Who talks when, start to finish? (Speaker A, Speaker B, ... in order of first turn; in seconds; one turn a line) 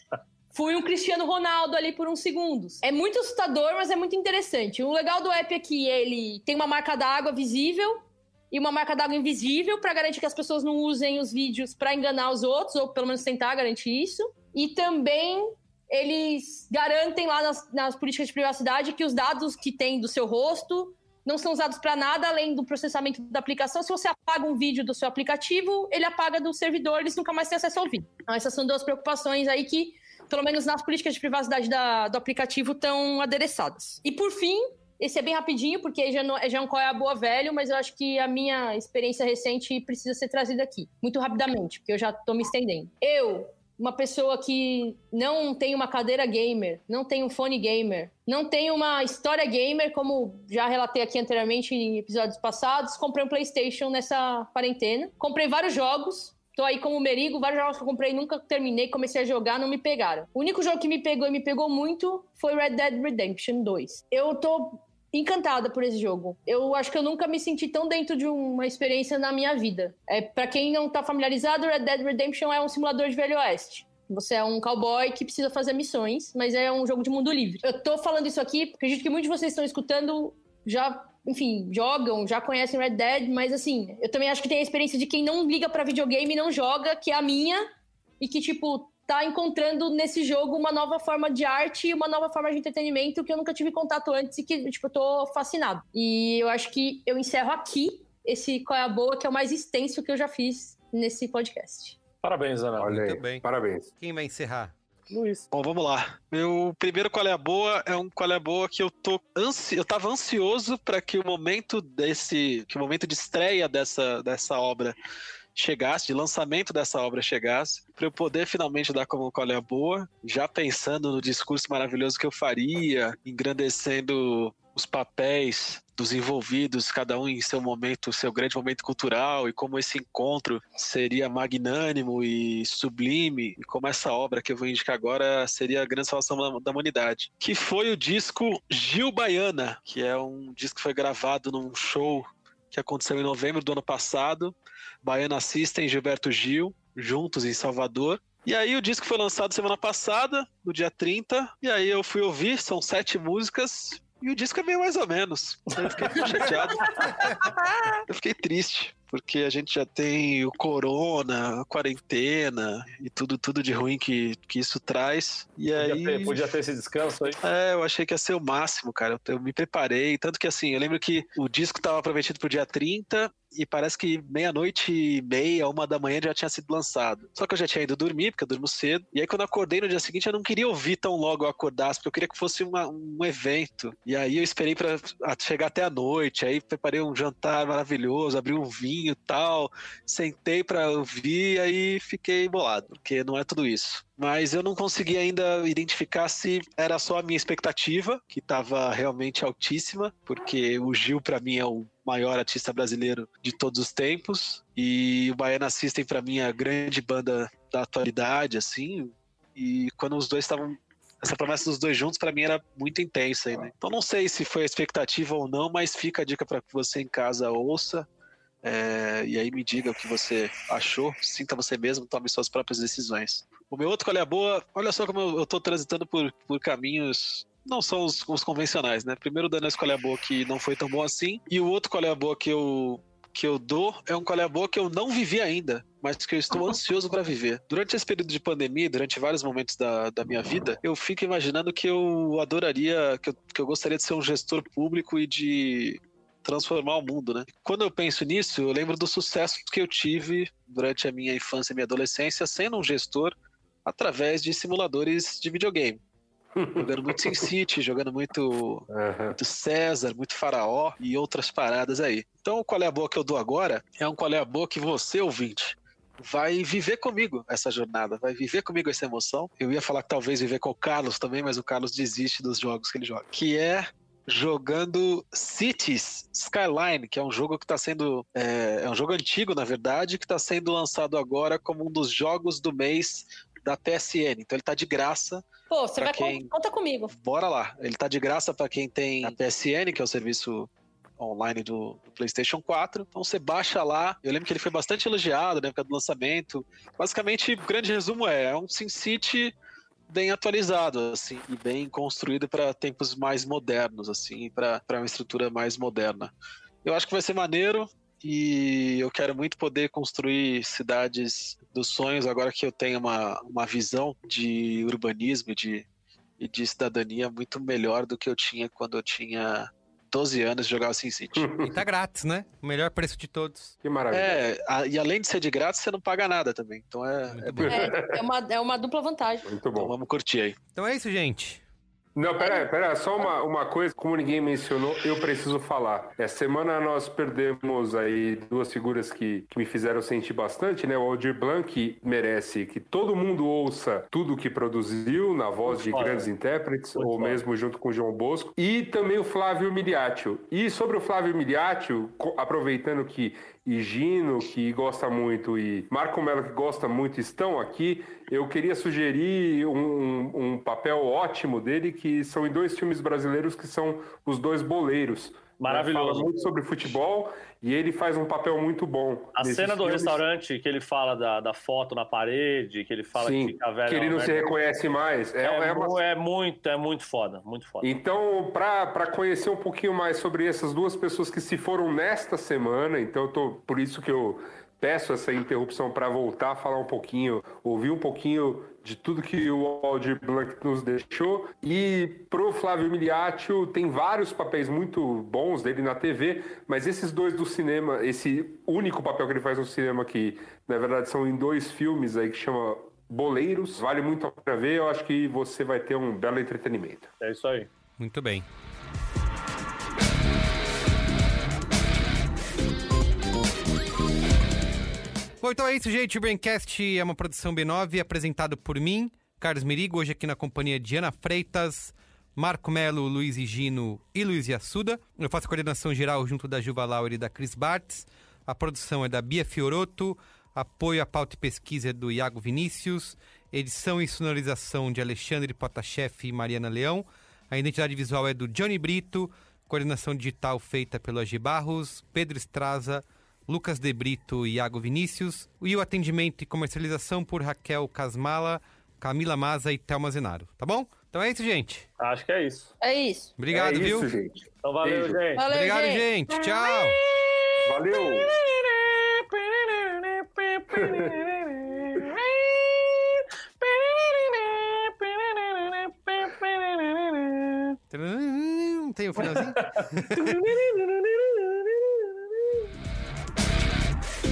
Speaker A: 0.5-87.7
Speaker A: 88.2-102.0
Speaker B: 102.2-102.9
Speaker C: 102.8-103.9
Speaker D: 102.8-103.5
Speaker D: 104.0-104.7
Speaker B: 105.1-105.5
Speaker E: 105.5-115.0
Speaker E: 115.5-157.3
Speaker B: 155.8-157.1
Speaker E: 158.1-166.4
Speaker B: 165.8-167.4
Speaker E: 167.4-218.1
Speaker E: 218.6-253.3
Speaker E: 253.8-256.0
Speaker C: 256.6-257.5
Speaker E: 256.8-285.4
Speaker C: 258.9-259.4
Speaker A: 285.7-287.1
Speaker E: 286.0-286.5
Speaker E: 287.1-299.6
Speaker E: 300.1-306.3
Speaker E: 306.8-315.9
Speaker E: 316.4-321.5
Speaker C: 321.4-321.7
Speaker D: 321.6-323.7
Speaker C: 323.8-324.4
Speaker E: 324.1-327.8
Speaker D: 327.3-327.7
Speaker C: 327.6-328.2
Speaker A: 327.7-329.5
Speaker C: 329.4-329.9
Speaker E: 329.7-330.6
Speaker D: 330.7-331.6
Speaker C: 332.2-370.2
Speaker A: 332.4-332.7
Speaker B: 345.7-346.3
Speaker B: 346.9-347.4
Speaker B: 365.6-366.4
Speaker B: 369.4-374.5
Speaker C: 373.1-376.0
Speaker B: 375.4-377.9
Speaker C: 377.8-407.1
Speaker B: 407.2-407.7
Speaker D: 408.0-408.4
Speaker D: 415.4-451.9
Speaker B: 452.0-452.7
Speaker A: 452.8-453.3
Speaker D: 453.4-454.1
Speaker C: 453.5-455.2
Speaker B: 454.6-455.5
Speaker A: 455.4-456.7
Speaker D: 455.5-457.0
Speaker B: 457.0-467.8
Speaker C: 457.7-458.3
Speaker C: 460.7-461.1
Speaker D: 467.9-470.4
Speaker B: 469.2-472.1